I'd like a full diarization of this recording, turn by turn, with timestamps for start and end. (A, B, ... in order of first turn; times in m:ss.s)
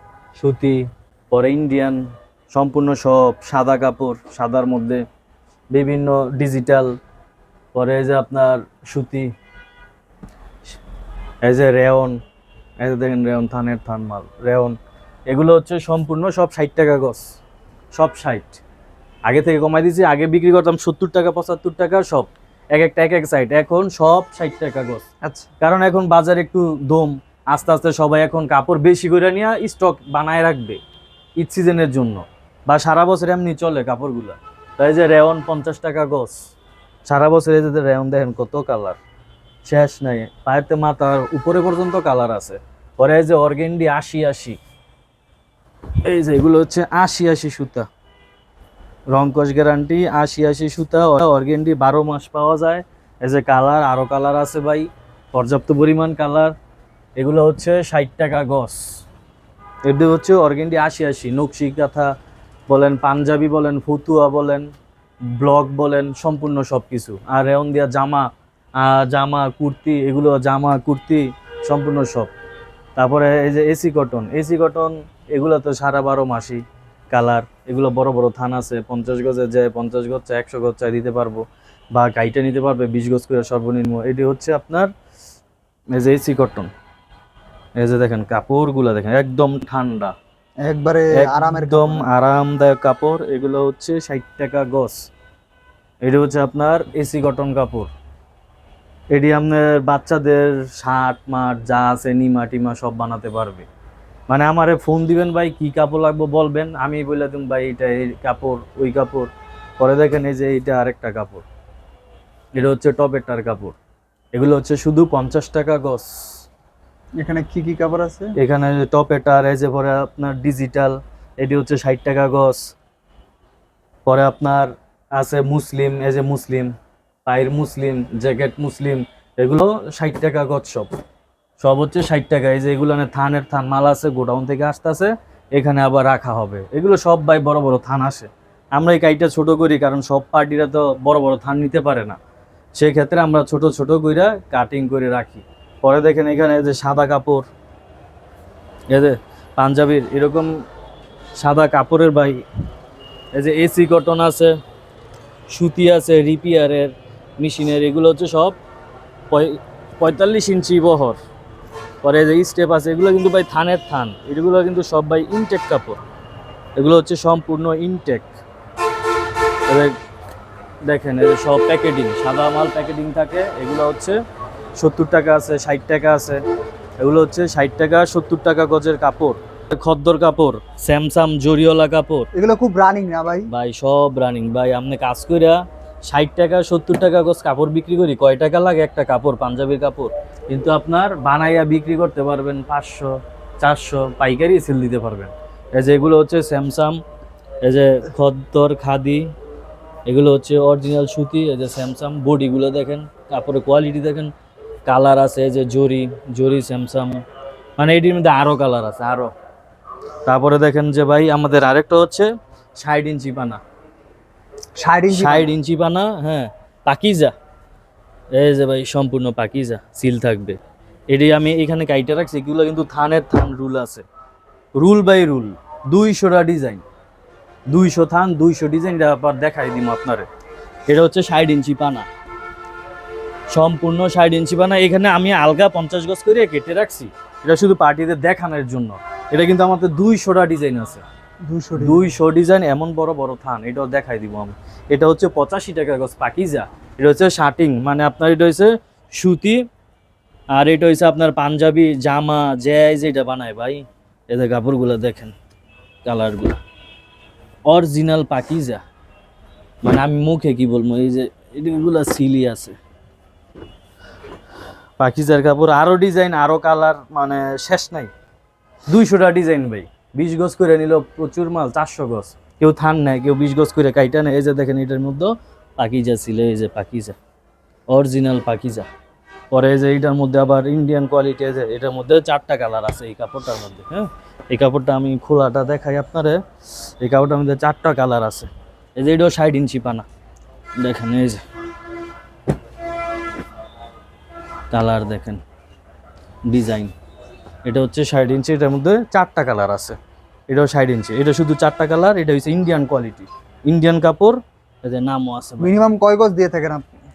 0:00.4-0:05.0 A
0:05.7-0:07.0 A
0:07.7-0:09.3 A
0:11.4-0:12.2 A
0:12.8-0:14.8 A
0:15.3-0:17.2 A
0:18.0-0:18.6 A
0:19.3-0:25.0 A
0:25.6-0:30.8 A
0:31.4-0:36.5 A
0:37.0-0:39.0 A
0:39.6-0:44.6 A
0:46.0-0:47.9 A
0:49.1-0:56.5 A
0:57.2-0:58.8 A
0:59.8-1:02.1 A
1:02.7-1:04.7 A
1:05.3-1:08.3 A
1:08.8-1:12.3 A
1:13.0-1:21.4 A
1:22.0-1:24.9 A
1:25.9-1:26.7 A
1:27.8-1:30.2 A
1:30.6-1:32.0 B
1:31.1-1:35.0 A
1:36.0-1:37.9 A
1:39.1-1:43.7 A
1:44.3-1:51.4 A
1:52.6-1:53.8 A
1:54.3-1:56.4 A
1:57.2-1:58.3 B
1:58.4-2:02.7 A
2:04.1-2:06.7 A
2:07.3-2:10.9 A
2:11.6-2:22.2 A
2:22.8-2:27.5 A
2:28.9-2:30.5 A
2:31.4-2:32.4 A
2:33.4-2:34.5 A
2:35.5-2:38.6 A
2:39.3-2:41.2 A
2:42.0-2:46.0 A
2:46.8-2:48.3 A
2:49.7-2:49.9 A
2:50.8-2:54.2 A
2:54.8-2:56.4 A
2:57.0-3:02.3 A
3:02.3-3:03.5 B
3:03.5-3:17.0 A
3:17.6-3:19.3 A
3:20.1-3:24.3 A
3:24.9-3:27.2 A
3:27.8-3:29.3 A
3:30.3-3:33.6 A
3:34.8-3:35.4 B
3:35.1-3:37.3 A
3:38.4-3:40.6 A
3:41.1-3:44.1 A
3:44.8-3:46.8 A
3:47.7-3:50.3 A
3:50.9-3:52.1 A
3:53.5-4:01.0 A
4:01.5-4:02.0 B
4:01.8-4:09.6 A
4:10.5-4:15.4 A
4:16.0-4:16.6 A
4:17.7-4:18.8 A
4:19.8-4:22.8 A
4:25.0-4:28.1 A
4:28.9-4:37.2 A
4:37.9-4:38.9 A
4:39.5-4:46.4 A
4:47.0-4:50.1 A
4:50.8-4:51.4 A
4:54.7-4:55.4 A
4:56.5-4:56.9 A
4:57.6-5:00.0 A
5:00.5-5:05.8 A
5:05.6-5:06.8 B